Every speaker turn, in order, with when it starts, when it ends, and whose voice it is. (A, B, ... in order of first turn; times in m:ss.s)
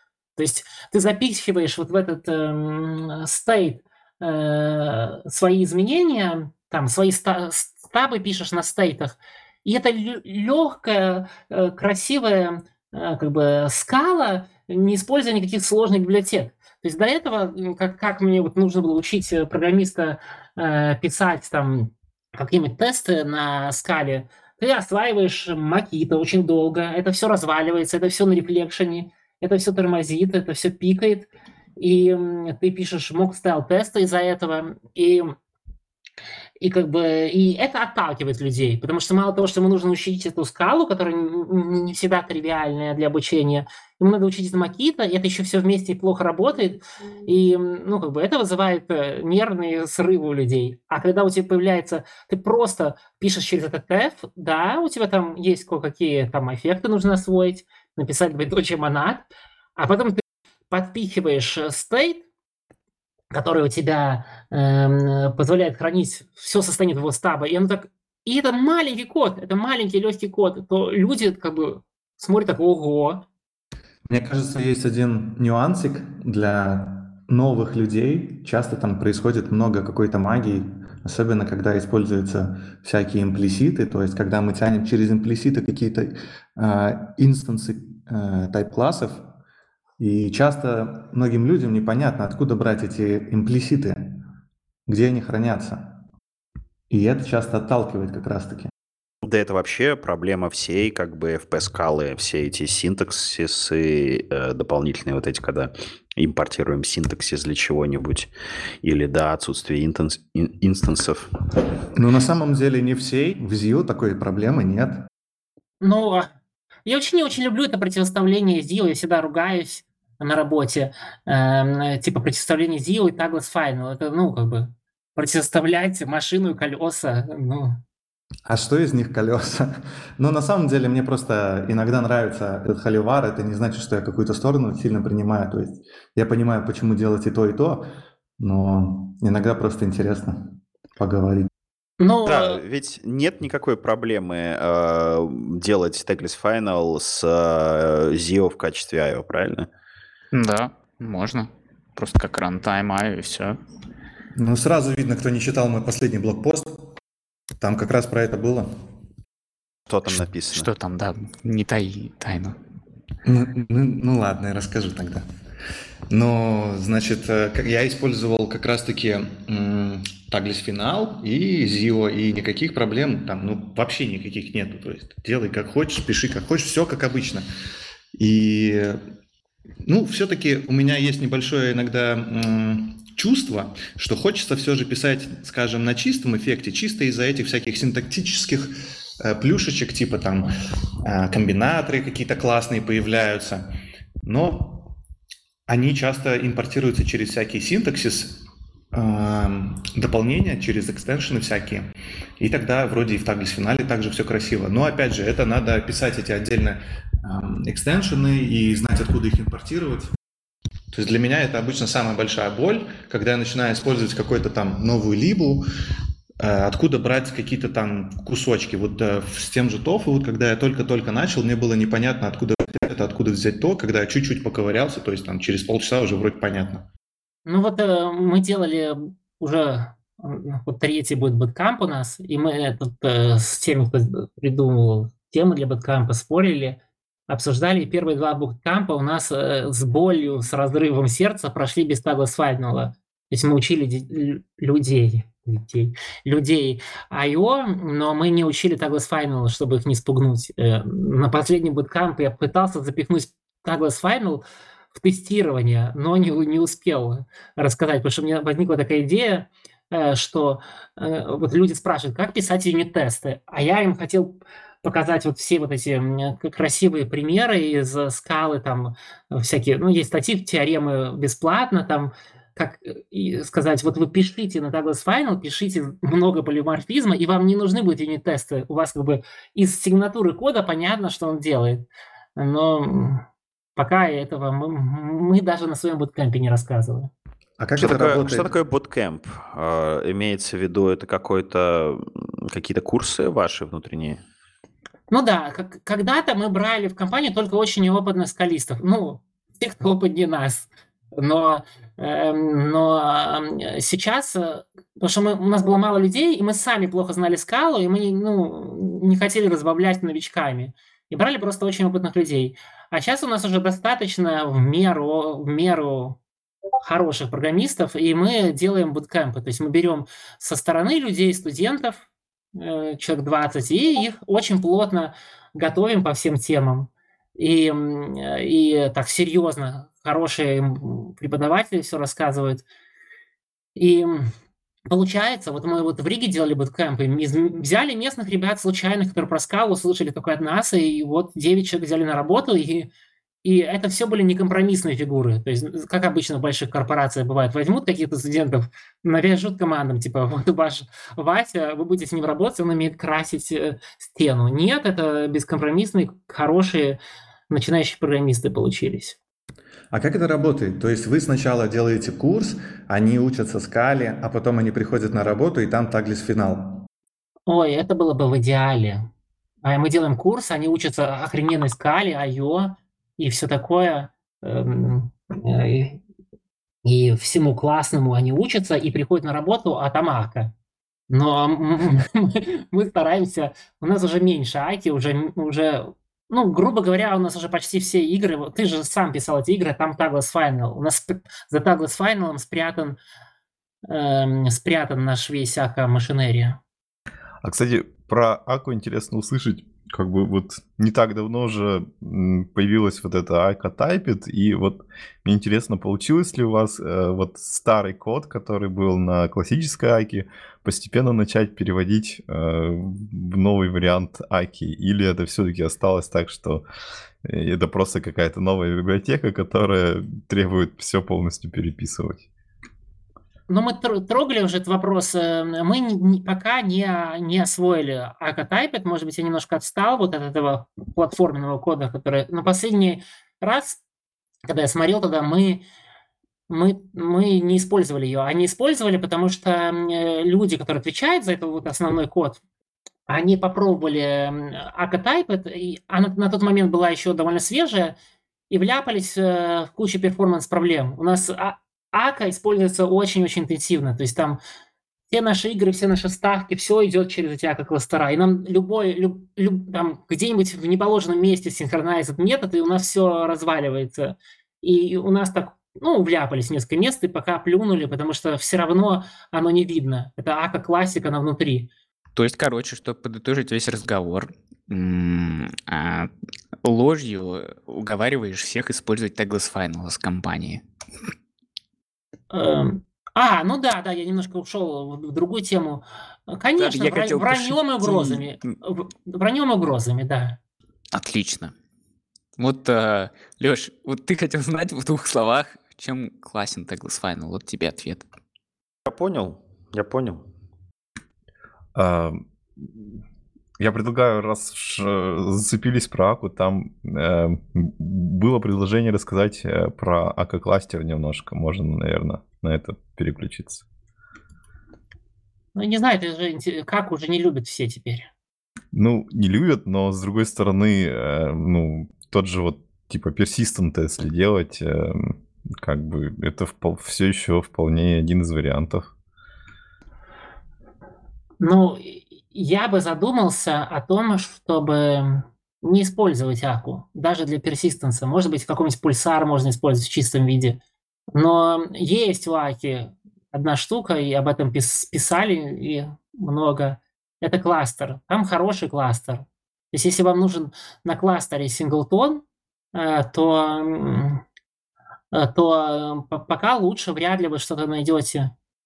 0:00.4-0:35.3 A
0:36.6-1:02.2 A
1:03.3-1:13.2 A
1:14.1-1:29.3 B
1:30.0-1:34.2 B
1:34.9-1:36.0 B
1:36.9-1:38.7 B
1:39.2-1:48.3 C
1:48.8-1:51.6 C
1:51.9-1:55.1 B
1:55.8-1:56.3 A
1:56.8-2:07.8 A
2:08.5-2:17.8 B
2:18.4-2:21.5 B
2:22.0-2:22.6 A
2:22.2-2:29.7 C
2:30.3-2:33.6 D
2:34.4-2:37.0 B
2:37.6-2:38.7 B
2:39.9-2:40.7 C
2:40.1-2:42.6 D
2:43.2-2:45.2 B
2:46.1-2:57.4 B
2:58.1-2:59.0 B
2:59.8-3:10.5 B
3:11.0-3:13.7 B
3:14.2-3:14.9 B
3:15.7-3:30.1 B
3:30.9-3:35.6 B
3:36.4-3:46.8 B
3:47.4-4:43.2 A
4:43.8-4:47.1 A
4:47.6-4:48.5 B
4:47.8-4:54.2 C
4:55.1-5:16.2 A
5:16.8-5:32.6 A
5:33.7-5:34.3 A
5:34.9-5:42.9 A
5:43.4-5:57.0 A
5:57.5-5:59.2 A
5:59.9-6:06.9 B
6:07.5-6:09.1 A
6:09.6-6:16.0 A
6:16.8-6:20.5 A
6:21.1-6:33.0 A
6:33.8-6:36.6 A
6:37.4-6:56.6 E
6:57.2-7:02.2 E
7:03.5-7:13.8 A
7:14.5-7:15.6 A
7:16.5-7:22.4 A
7:23.1-7:27.9 A
7:28.5-7:34.4 A
7:35.1-7:51.7 A
7:52.1-7:56.1 D
7:56.6-8:00.6 D
8:02.3-8:10.4 A
8:06.6-8:08.3 D
8:10.9-8:11.5 D
8:12.4-8:18.0 D
8:18.8-8:20.2 C
8:21.7-8:23.0 E
8:23.6-8:33.6 E
8:35.5-8:38.1 A
8:38.7-8:48.9 E
8:51.4-9:00.6 A
9:01.1-9:12.2 A
9:12.7-9:14.2 A
9:15.1-9:18.3 A